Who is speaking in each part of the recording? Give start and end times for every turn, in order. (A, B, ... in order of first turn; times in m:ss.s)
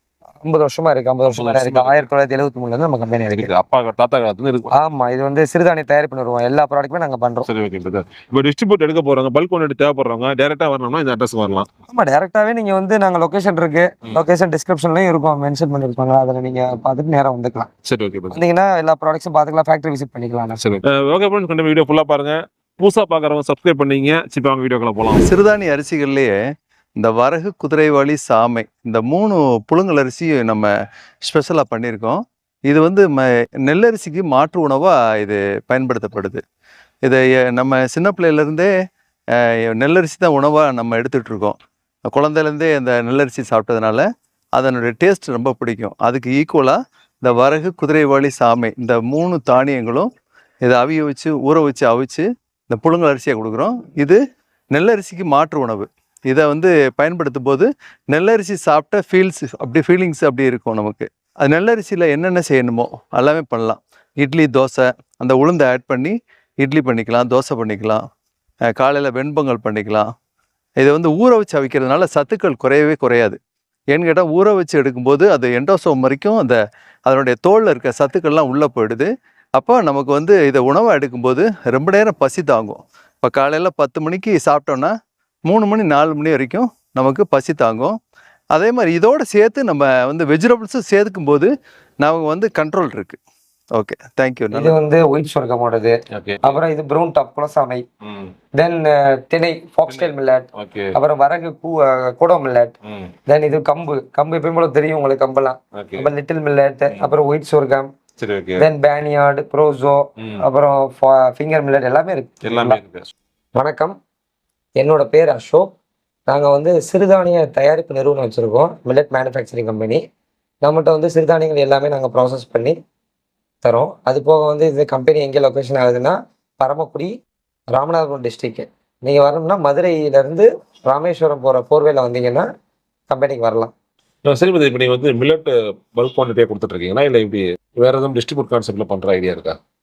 0:00.4-0:03.5 A
0:01.3-0:02.1 B
0:03.3-0:04.7 B
0:04.7-0:07.5 A
0:07.5-0:11.7 B
0:11.9-0:17.7 A
0:17.8-0:18.4 B
0:18.3-0:20.6 A
0:20.6-0:25.5 B
0:25.2-0:26.4 C
0:27.0-0:30.7 C
0:31.3-0:36.4 C
0:37.1-0:38.7 C
0:39.4-0:41.6 C
0:42.1-0:44.0 C
0:44.6-0:50.1 C
0:50.6-0:54.2 C
0:54.7-1:08.0 C
1:08.8-1:10.1 C
1:10.8-1:13.4 C
1:13.9-1:24.9 C
1:25.5-1:28.0 C
1:28.5-1:31.5 C
1:32.0-1:33.2 C
1:33.8-1:34.8 C
1:34.5-1:37.8 A
1:36.1-1:36.6 B
1:38.0-1:38.3 B
1:38.6-1:42.7 A
1:39.9-1:41.0 B
1:42.8-1:43.1 B
1:43.3-1:47.9 A
1:45.7-1:46.1 B
1:48.2-1:48.7 B
1:48.6-1:52.8 A
1:52.4-1:53.1 B
1:53.6-1:54.0 A
1:54.8-1:55.7 A
1:56.3-2:00.0 A
2:00.6-2:02.8 A
2:03.6-2:07.1 A
2:07.7-2:12.5 A
2:13.1-2:13.7 A
2:14.2-2:19.6 B